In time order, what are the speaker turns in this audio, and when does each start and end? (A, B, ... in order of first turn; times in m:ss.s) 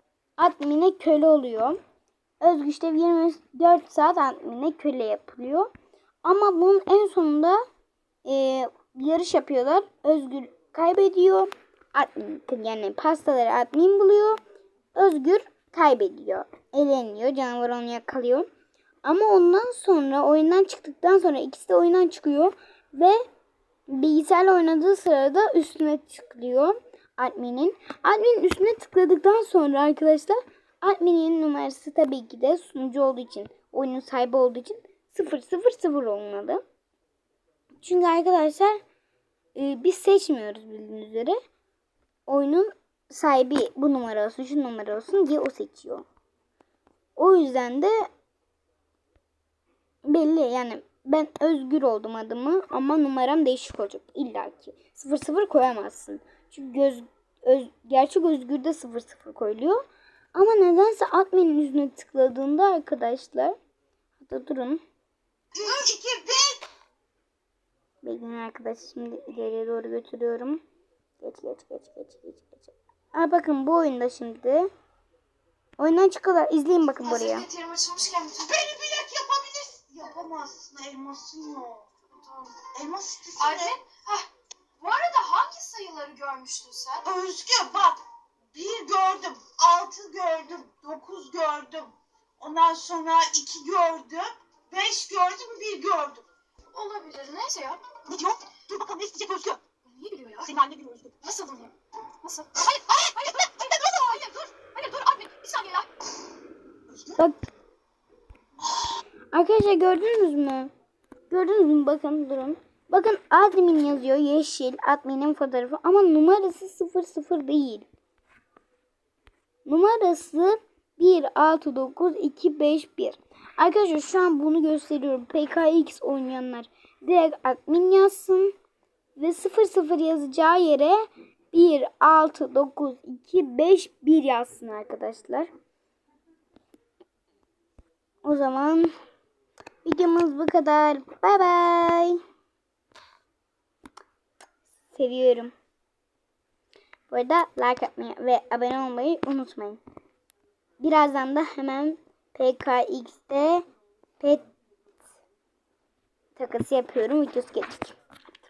0:00.4-0:01.8 A
0:02.4-0:05.7 A
0:06.2-0:07.6 A
0:08.2-0:14.4 A
0:15.0-0:18.5 A
0:19.0-0:23.2 A
0:23.9-0:36.6 A
0:37.8-0:38.8 A
0:39.6-0:41.4 A
0:42.3-0:46.0 A
0:47.2-0:48.0 A
0:50.0-0:59.8 A
1:00.4-1:03.6 A
1:04.2-1:04.8 A
1:05.6-1:06.6 B
1:08.0-1:10.6 A
1:11.2-1:14.7 A
1:15.8-1:17.5 A
1:17.0-1:18.6 C
1:18.4-1:21.9 B
1:22.2-1:22.7 C
1:22.7-1:23.8 B
1:23.4-1:27.1 C
1:27.0-1:28.0 B
1:28.5-1:36.2 B
1:36.7-1:37.8 C
1:38.0-1:39.6 B
1:39.8-1:40.6 C
1:40.4-1:41.2 B
1:41.2-1:45.9 C
1:47.2-1:47.5 A
1:49.3-1:50.7 A
1:51.3-1:57.9 A
1:59.7-2:08.5 A
2:09.2-2:15.5 A
2:18.2-2:18.9 A
2:19.8-2:22.2 A
2:24.9-2:25.5 A
2:27.1-2:29.8 A
2:30.8-2:33.6 A
2:36.4-2:38.0 A